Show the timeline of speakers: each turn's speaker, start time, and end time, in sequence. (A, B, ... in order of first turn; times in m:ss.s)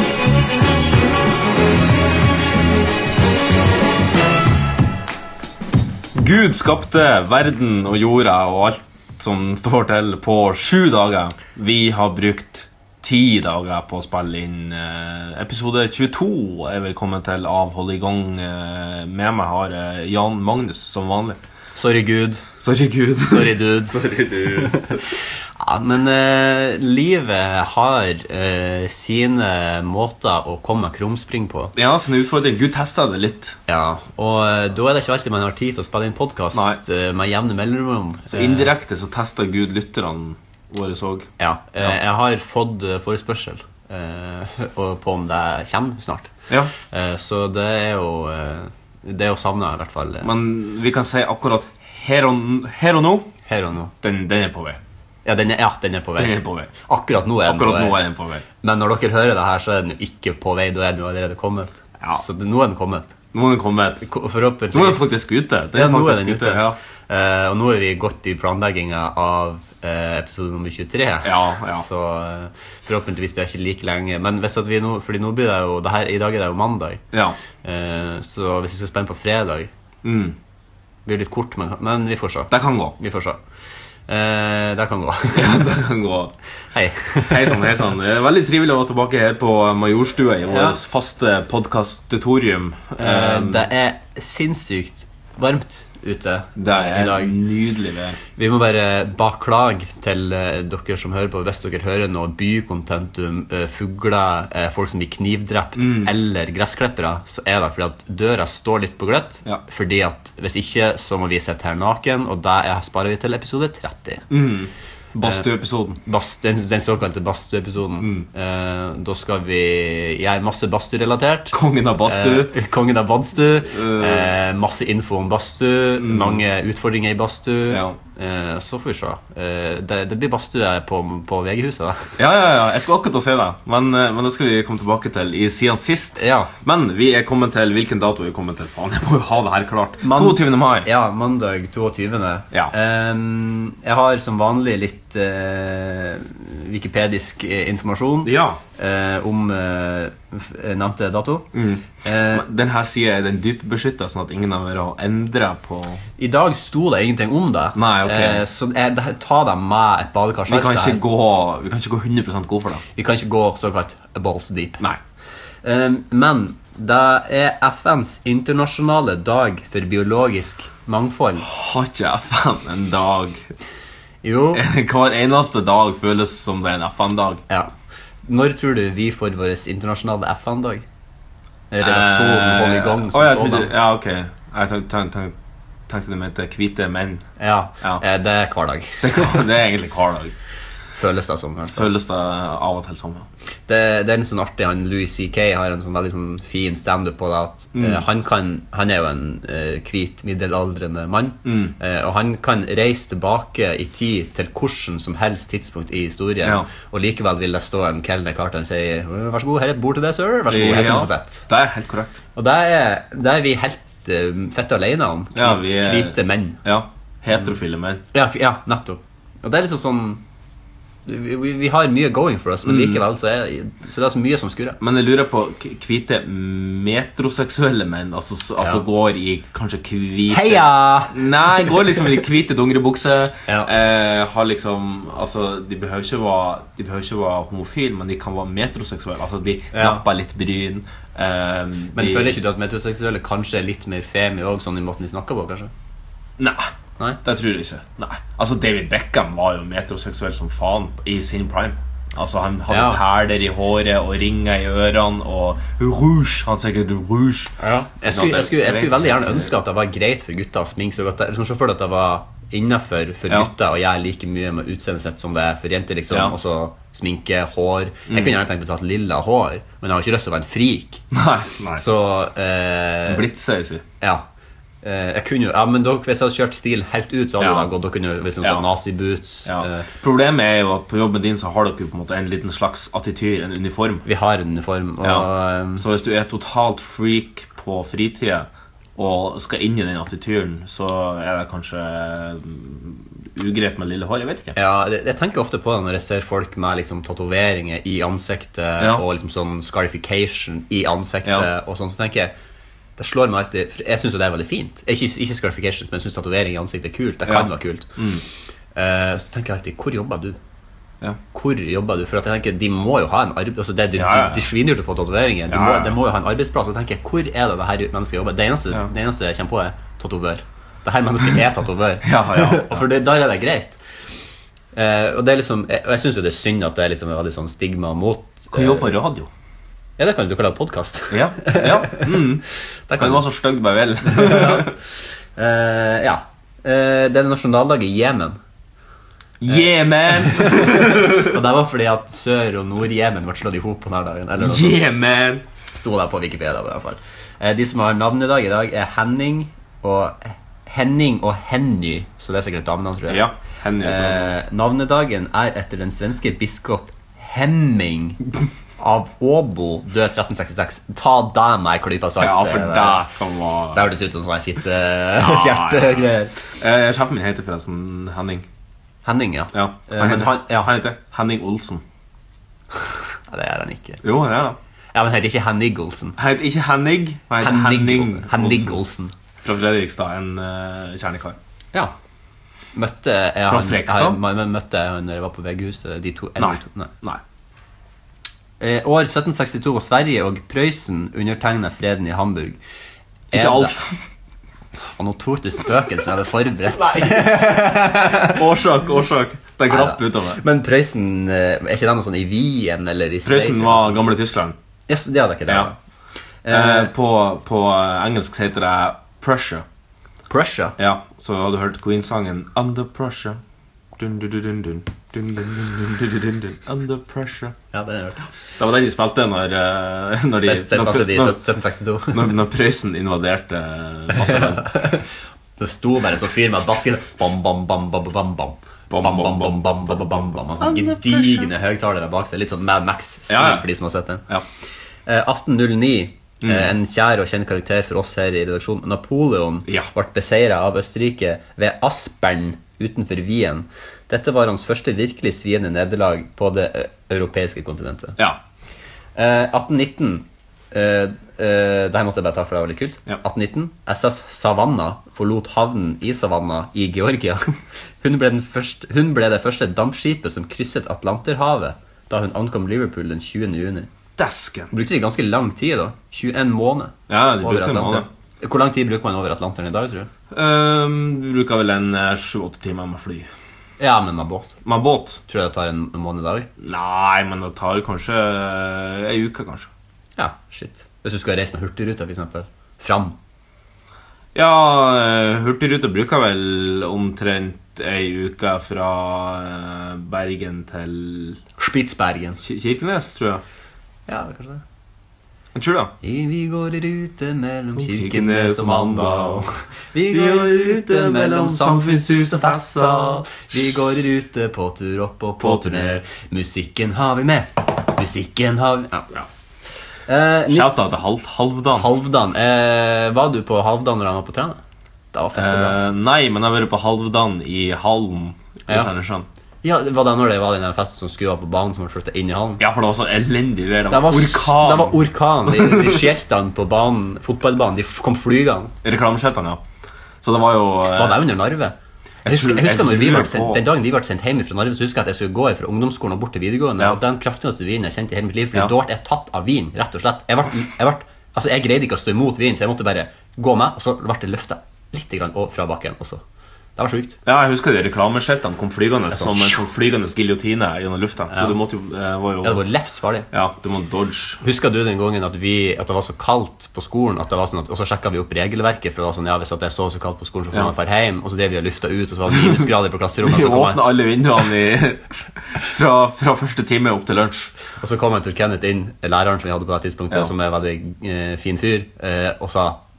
0:06.2-0:21.4 A
0:21.8-0:22.4 B
0:22.6-0:25.0 A
0:23.2-0:25.0 B
0:25.6-0:31.7 B
0:31.8-0:33.6 A
0:33.7-0:38.7 B
0:36.5-0:36.8 A
0:38.3-0:41.3 A
0:41.4-0:46.3 B
0:46.9-0:50.3 B
0:50.2-0:53.3 A
0:53.5-0:53.9 B
0:54.0-0:54.8 A
0:55.2-0:58.0 B
0:56.2-0:56.7 A
0:57.4-0:58.4 A
0:58.6-1:03.2 B
1:03.3-1:04.1 A
1:04.0-1:05.1 B
1:04.7-1:06.8 A
1:05.7-1:17.0 B
1:11.2-1:11.9 A
1:17.1-1:17.4 A
1:17.6-1:19.7 B
1:20.0-1:20.4 A
1:21.1-1:23.4 B
1:22.5-1:23.0 A
1:24.1-1:25.6 B
1:25.3-1:26.3 A
1:26.7-1:27.7 B
1:27.3-1:33.7 A
1:30.5-1:30.8 B
1:33.0-1:37.4 B
1:36.6-1:38.2 A
1:38.4-1:54.2 B
1:45.8-1:46.1 A
1:54.3-1:56.0 A
1:56.0-2:12.1 B
1:58.0-1:58.3 A
2:01.5-2:02.5 A
2:03.7-2:04.3 A
2:06.0-2:06.4 A
2:07.7-2:08.0 A
2:12.2-2:20.9 A
2:16.2-2:16.5 B
2:20.0-2:31.5 B
2:28.2-2:28.6 A
2:31.5-2:36.0 A
2:32.0-2:32.4 B
2:36.2-2:41.0 B
2:37.8-2:38.4 A
2:40.5-2:42.8 A
2:43.0-2:45.0 B
2:45.6-2:51.4 B
2:51.4-2:53.5 A
2:54.2-2:54.6 B
2:54.5-2:57.4 A
2:58.2-3:00.8 B
3:01.7-3:03.7 B
3:01.8-3:05.4 A
3:05.9-3:07.2 A
3:07.4-3:09.4 B
3:09.0-3:10.4 A
3:11.0-3:11.9 B
3:11.8-3:13.3 A
3:13.7-3:31.5 B
3:17.8-3:18.0 A
3:21.4-3:21.8 A
3:26.4-3:26.7 A
3:30.5-3:32.2 A
3:32.4-3:36.6 B
3:35.3-3:38.0 A
3:38.1-3:40.2 B
3:41.1-3:44.8 B
3:42.6-3:43.0 A
3:44.8-4:02.4 A
3:50.3-3:51.7 B
3:59.7-4:00.0 B
4:02.0-4:05.7 B
4:06.4-4:06.7 A
4:07.2-4:19.5 A
4:12.7-4:13.0 B
4:17.6-4:31.0 B
4:26.1-4:26.4 A
4:28.1-4:28.4 A
4:31.1-4:31.8 A
4:31.8-4:33.3 B
4:33.1-4:33.8 A
4:34.8-4:39.9 B
4:37.4-4:37.7 A
4:39.4-4:44.0 A
4:44.0-4:45.8 B
4:45.0-4:54.6 A
4:54.6-5:02.3 B
4:58.8-4:59.0 A
5:03.0-5:07.9 B
5:07.2-5:08.2 A
5:08.8-5:10.4 B
5:11.3-5:23.8 B
5:14.0-5:14.5 A
5:15.5-5:16.0 A
5:22.0-5:22.8 A
5:24.8-5:29.0 B
5:28.5-5:29.3 A
5:30.0-5:32.1 B
5:31.1-5:32.4 A
5:32.9-5:33.3 B
5:33.0-5:34.8 A
5:34.1-5:34.7 B
5:35.4-5:38.4 B
5:39.4-5:41.3 A
5:40.1-5:44.8 B
5:44.4-5:45.4 A
5:45.7-5:53.3 B
5:53.1-5:54.3 A
5:53.8-5:58.2 B
5:58.8-6:03.1 B
6:02.2-6:03.8 A
6:03.7-6:06.4 B
6:05.2-6:06.0 A
6:06.6-6:08.5 A
6:09.0-6:10.7 B
6:09.5-6:11.8 A
6:13.3-6:14.0 B
6:14.0-6:14.6 A
6:14.9-6:16.2 B
6:16.2-6:18.8 A
6:17.4-6:19.1 B
6:19.4-6:21.4 A
6:22.7-6:26.9 B
6:23.5-6:24.2 A
6:26.4-6:27.2 A
6:28.6-6:32.6 B
6:33.3-6:33.8 B
6:33.3-6:34.0 A
6:34.8-6:38.4 B
6:36.7-6:40.4 A
6:39.7-6:44.0 B
6:43.2-6:44.6 A
6:44.9-6:45.8 B
6:46.4-6:46.9 B
6:46.5-6:49.6 A
6:50.3-6:50.8 B
6:50.8-6:53.4 A
6:54.0-6:57.6 A
6:57.7-6:58.2 B
6:58.6-7:01.4 A
7:00.5-7:02.3 B
7:02.1-7:04.7 A
7:04.2-7:05.1 B
7:05.6-7:14.2 B
7:08.9-7:11.5 A
7:13.3-7:13.7 A
7:15.1-7:28.2 B
7:16.4-7:16.7 A
7:29.2-7:43.9 B
7:44.2-7:44.7 A
7:44.7-7:50.1 B
7:47.1-7:48.1 A
7:50.3-7:53.3 A
7:53.8-7:54.6 B
7:54.6-7:55.2 A
7:55.3-7:56.5 B
7:56.6-7:59.7 A
8:00.2-8:03.2 B
8:04.4-8:11.4 A
8:11.6-8:12.4 B
8:12.4-8:13.4 A
8:14.1-8:14.6 B
8:15.5-8:15.9 A
8:16.0-8:29.1 B
8:17.8-8:19.5 A
8:20.1-8:23.3 A
8:25.4-8:26.0 A
8:30.1-8:30.8 B
8:30.5-8:31.9 A
8:31.7-8:34.6 B
8:35.1-8:36.0 B
8:35.4-8:39.3 A
8:39.6-8:42.6 B
8:42.6-8:46.0 A
8:43.9-8:48.7 B
8:48.8-8:49.6 A
8:50.2-8:51.3 A
8:51.0-8:51.8 B
8:52.2-8:53.6 A
8:52.3-9:06.2 B
9:06.8-9:07.2 B
9:07.2-9:12.6 A
9:09.1-9:09.6 B
9:12.4-9:13.3 B
9:13.3-9:14.4 A
9:14.4-9:23.9 B
9:22.3-9:27.5 A
9:27.8-9:32.8 B